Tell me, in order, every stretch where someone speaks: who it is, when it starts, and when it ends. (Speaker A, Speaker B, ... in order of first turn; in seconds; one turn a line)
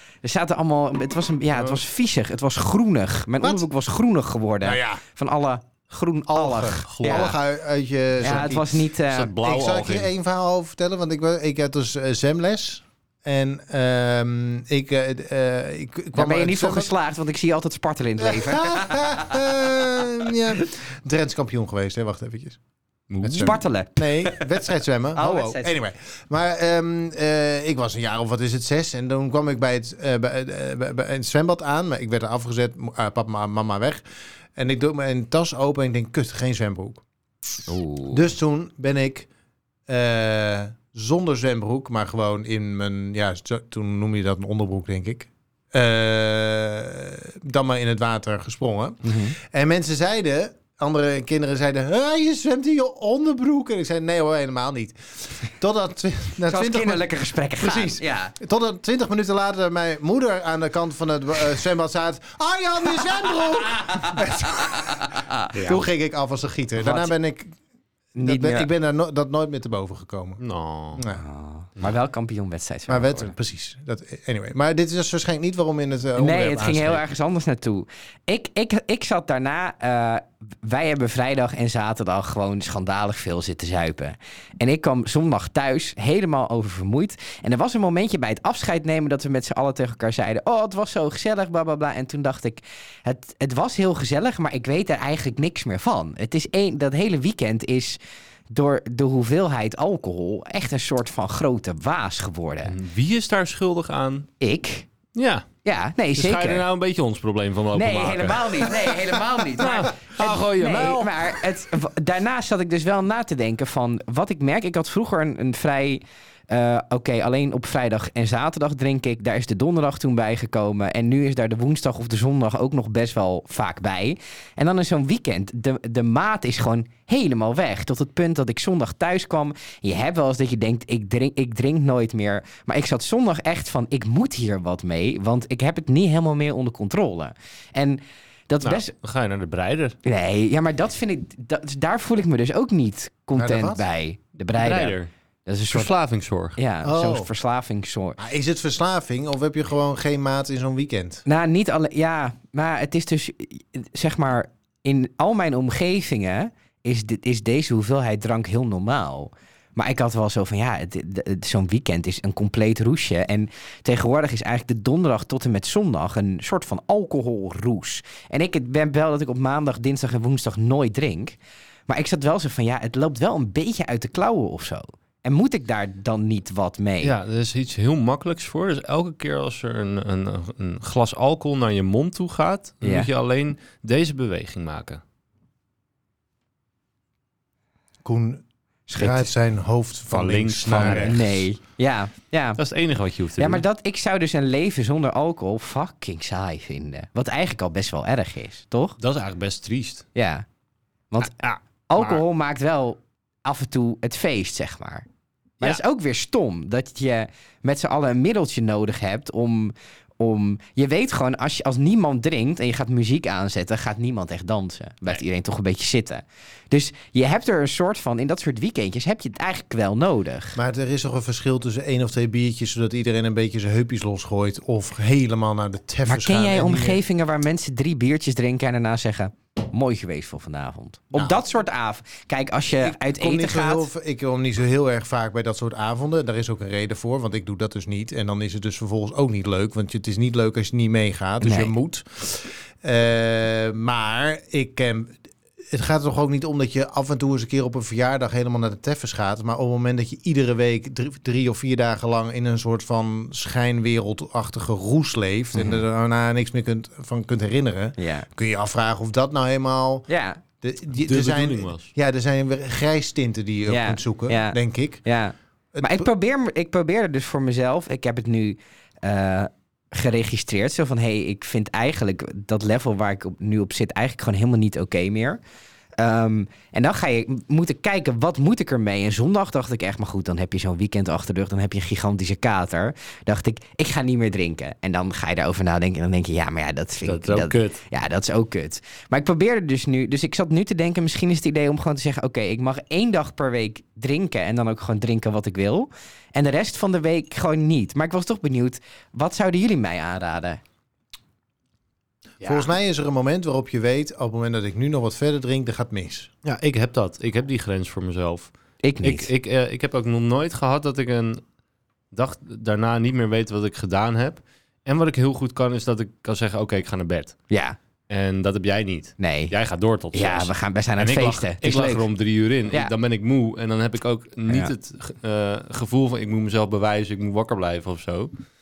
Speaker A: 0.2-7.3
Speaker B: 1.6-1.8
Speaker C: 3.4-3.7
Speaker C: 4.6-5.0
Speaker C: 6.3-8.9
Speaker B: 6.9-7.4
Speaker A: 8.2-9.3
Speaker B: 9.1-10.1
Speaker C: 9.4-16.9
Speaker A: 16.1-19.6
Speaker C: 18.2-22.6
Speaker B: 23.1-23.6
Speaker C: 23.2-34.0
Speaker A: 23.4-24.5
Speaker A: 25.1-25.7
Speaker C: 34.6-37.0
Speaker A: 37.7-38.2
Speaker C: 38.1-39.3
Speaker C: 39.9-65.0
Speaker B: 49.0-49.3
Speaker A: 56.5-58.3
Speaker A: 63.0-65.5
Speaker B: 65.5-65.8
Speaker C: 65.7-67.6
Speaker A: 66.8-67.1
Speaker A: 68.2-68.7
Speaker C: 68.2-70.4
Speaker B: 70.4-71.0
Speaker C: 71.0-71.2
Speaker A: 71.2-73.3
Speaker C: 72.9-77.1
Speaker A: 76.2-98.0
Speaker A: 98.5-102.7
Speaker B: 102.7-104.3
Speaker A: 104.4-104.9
Speaker B: 105.1-105.5
Speaker A: 105.7-106.6
Speaker B: 106.2-108.8
Speaker A: 107.8-138.9
Speaker B: 109.6-111.4
Speaker B: 138.6-140.0
Speaker A: 140.1-145.9
Speaker C: 143.4-143.8
Speaker B: 144.6-145.1
Speaker B: 145.7-146.6
Speaker A: 146.6-148.2
Speaker C: 146.8-147.3
Speaker C: 148.2-151.2
Speaker A: 151.3-171.4
Speaker A: 171.9-177.1
Speaker B: 177.0-185.0
Speaker A: 182.8-183.1
Speaker C: 188.0-188.4
Speaker A: 188.9-189.3
Speaker C: 189.0-191.2
Speaker B: 190.1-191.4
Speaker A: 190.8-192.6
Speaker B: 192.6-193.6
Speaker A: 193.4-199.0
Speaker B: 199.0-200.1
Speaker A: 200.2-200.5
Speaker B: 201.2-202.2
Speaker A: 201.9-205.1
Speaker A: 205.6-220.6
Speaker C: 220.6-227.0
Speaker A: 226.1-233.9
Speaker C: 232.8-245.2
Speaker A: 241.4-241.7
Speaker C: 245.7-260.1
Speaker A: 255.6-255.8
Speaker A: 258.0-258.3
Speaker A: 260.1-260.4
Speaker C: 260.6-265.0
Speaker B: 261.0-261.9
Speaker A: 263.7-275.4
Speaker C: 265.7-266.1
Speaker A: 276.0-300.6
Speaker B: 287.0-287.8
Speaker C: 302.4-306.3
Speaker B: 302.4-302.7
Speaker B: 306.4-308.5
Speaker A: 308.8-309.3
Speaker B: 309.0-311.4
Speaker B: 312.1-317.4
Speaker A: 317.5-317.8
Speaker B: 318.1-328.3
Speaker A: 319.2-319.5
Speaker A: 320.1-322.1